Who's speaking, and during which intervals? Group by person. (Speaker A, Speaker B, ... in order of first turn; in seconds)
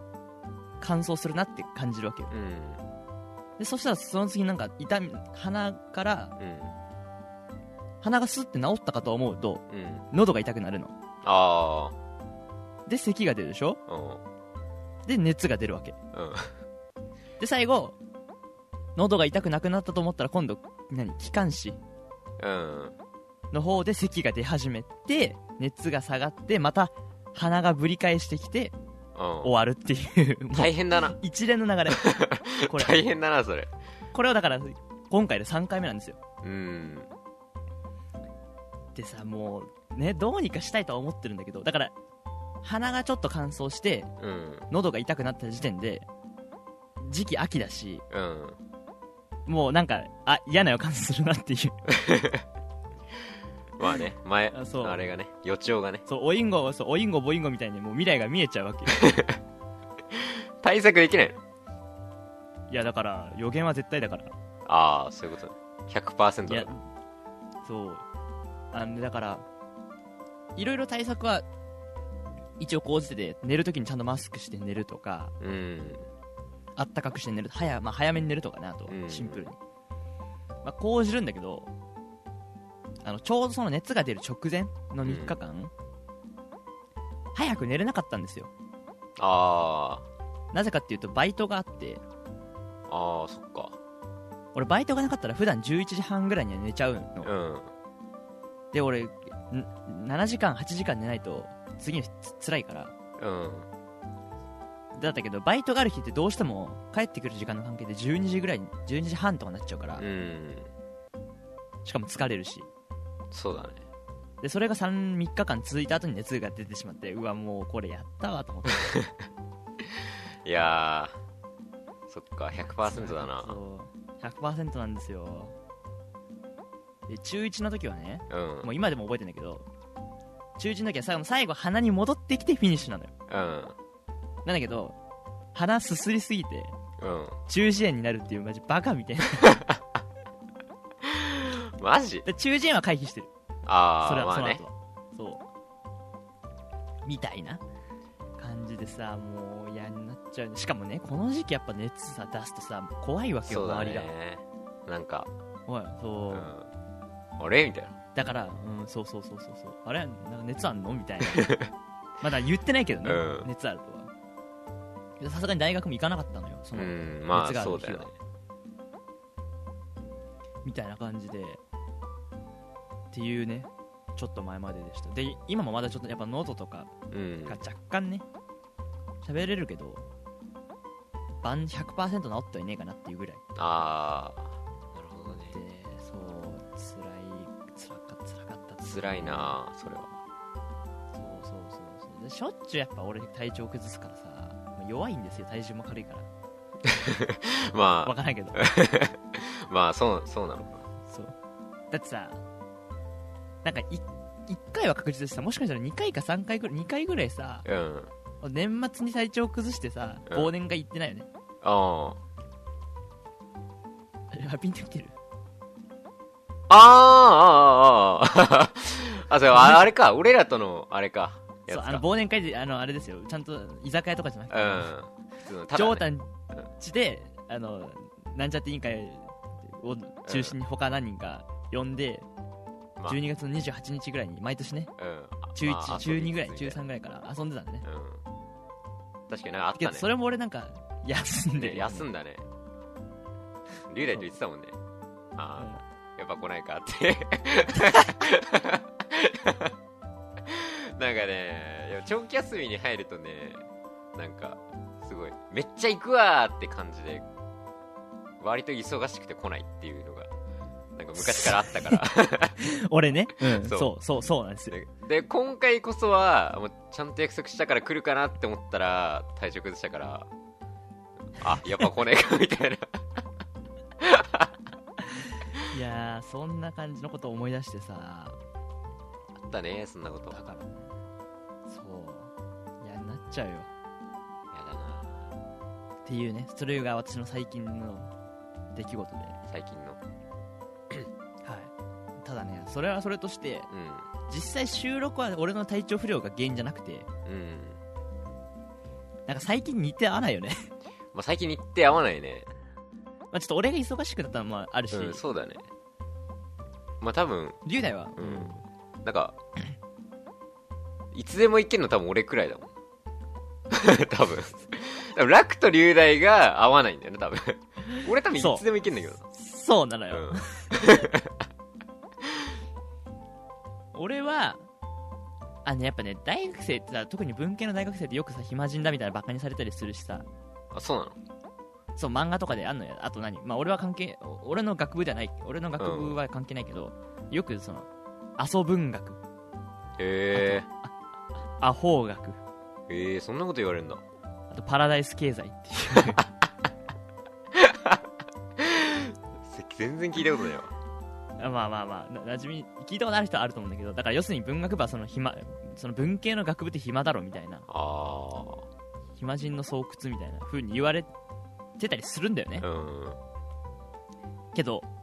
Speaker A: 0.8-2.3, 3.6-6.3, 8.0-10.9, 12.9-13.8, 15.1-15.9, 17.4-17.9, 18.9-21.8, 23.5-28.7, 29.4-32.1, 32.6-33.0, 34.1-36.2, 38.9-41.9, 42.6-44.1, 44.7-46.1, 47.0-48.0, 49.5-51.9, 54.5-55.0, 56.0-59.0, 62.7-64.3, 66.5-66.8, 67.6-68.0, 68.7-69.4, 70.5-71.5, 72.6-75.3, 76.8-79.6, 80.6-81.7, 83.0-85.7, 87.3-88.5, 90.5-92.0, 94.5-97.3, 98.7-102.9, 105.0-110.0, 111.8-112.7, 114.4-118.9, 122.8-125.5, 127.1-129.7, 130.6-133.1, 134.4-134.9, 135.5-136.8, 137.5-139.5, 142.2-143.3, 144.0-145.4, 147.0-147.6, 148.4-154.1, 155.7-156.5, 158.1-161.5, 162.2-164.1, 165.2-168.1, 170.6-171.6, 173.1-176.9, 177.5-178.2, 179.2-180.0, 181.4-183.4, 185.5-189.6, 191.1-196.3, 198.0-198.6, 201.1-201.3, 201.9-202.4, 203.6-207.7, 208.4-211.3, 214.3-215.1, 219.5-219.9, 221.7-224.9, 225.7-232.2, 233.1-234.9, 235.5-237.8, 239.8-242.1, 245.6-245.8, 261.1-262.0, 262.6-264.8, 275.7-278.4, 280.3-280.9, 281.7-283.7, 286.0-288.1, 288.7-289.4, 291.4-293.7, 294.3-297.1, 299.3-300.7, 303.3-305.2, 307.6-308.6, 317.9-318.6, 319.2-320.7, 323.9-324.6, 325.6-330.2, 331.9-339.2, 340.3-340.9, 341.6-342.4, 344.5-346.2, 351.4-357.7, 359.2-361.1, 361.8-362.6, 364.5-364.9
Speaker B: 2.3-2.8, 6.4-6.7, 9.7-10.1, 11.2-11.9, 13.9-14.2, 16.1-16.5, 22.4-22.9, 29.1-29.5, 30.6-31.1, 31.9-33.7, 36.4-37.1, 44.2-44.7, 48.1-48.6, 51.9-52.4, 53.8-56.0, 59.0-59.4, 60.1-61.4, 64.7-66.7, 75.4-76.1, 78.9-79.4, 85.0-85.4, 89.2-90.0, 92.9-93.8, 97.2-97.7, 103.2-103.7, 110.0-110.7, 113.3-113.8, 118.9-119.2, 119.8-121.2, 122.1-123.5, 128.3-128.7, 133.3-133.8, 137.0-137.4, 139.4-139.8, 141.0-142.2, 143.7-144.6, 153.4-155.3, 156.3-156.7, 157.4-157.9, 161.2-161.7, 163.0-163.5, 166.8-168.1, 177.1-177.6, 183.6-185.6, 188.8-190.2, 196.8-200.9, 207.6-208.1, 211.6-212.2, 216.7-222.0, 224.5-226.7, 230.2-230.6, 235.0-236.8, 237.8-238.2, 239.3-240.1, 241.6-242.4, 243.9-244.8, 245.3-249.7, 250.4-257.2, 258.4-260.3, 260.9-262.6, 263.4-263.9, 264.7-270.3, 271.4-273.2, 274.0-274.5, 279.4-280.4, 284.5-285.2, 289.5-290.0, 293.7-294.1, 297.2-297.8, 301.1-302.5, 304.9-305.7, 307.0-307.6, 308.2-309.3, 311.1-312.7, 313.7-319.2, 320.1-321.4, 330.7-331.2, 335.8-336.2, 340.0-340.7, 342.9-344.0, 347.5-348.0, 348.6-350.7, 357.7-358.6, 362.6-363.2